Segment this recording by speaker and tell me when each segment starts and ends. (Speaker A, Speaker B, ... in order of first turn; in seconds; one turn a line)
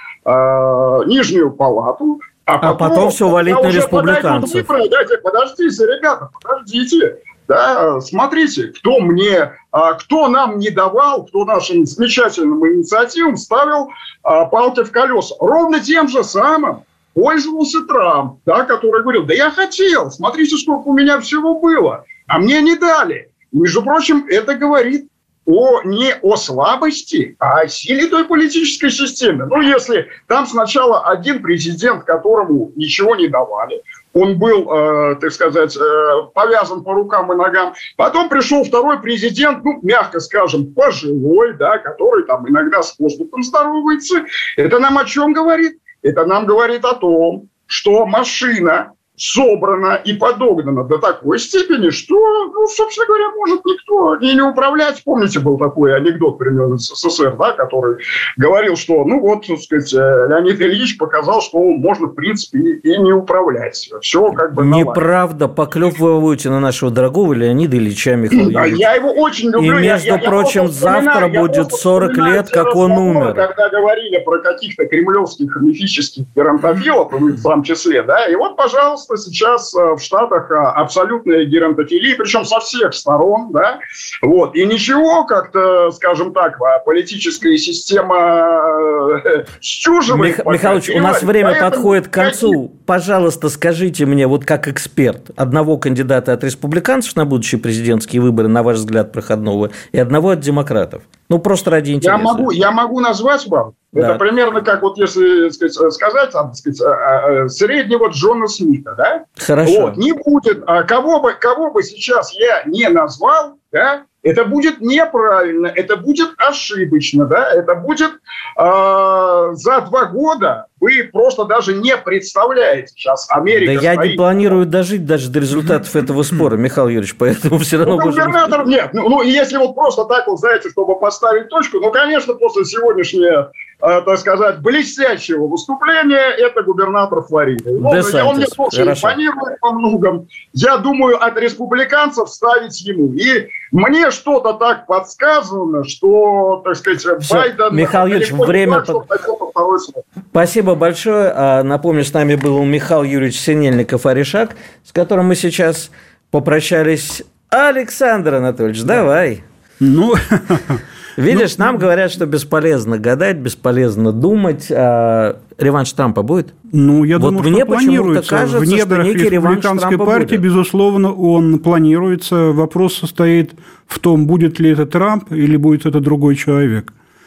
Speaker A: 0.3-65.0
Speaker B: 2.6-4.7
Speaker B: 64.5-68.8
Speaker A: 68.3-92.6
Speaker B: 69.6-73.5
Speaker B: 90.1-102.5
Speaker A: 102.0-124.6
Speaker B: 104.0-104.2
Speaker B: 109.4-110.0
Speaker B: 123.6-128.5
Speaker A: 127.9-150.0
Speaker B: 137.8-139.2
Speaker B: 147.2-149.0
Speaker B: 150.3-159.4
Speaker C: 159.8-161.8
Speaker B: 161.2-166.5
Speaker C: 166.7-176.9
Speaker B: 167.2-170.4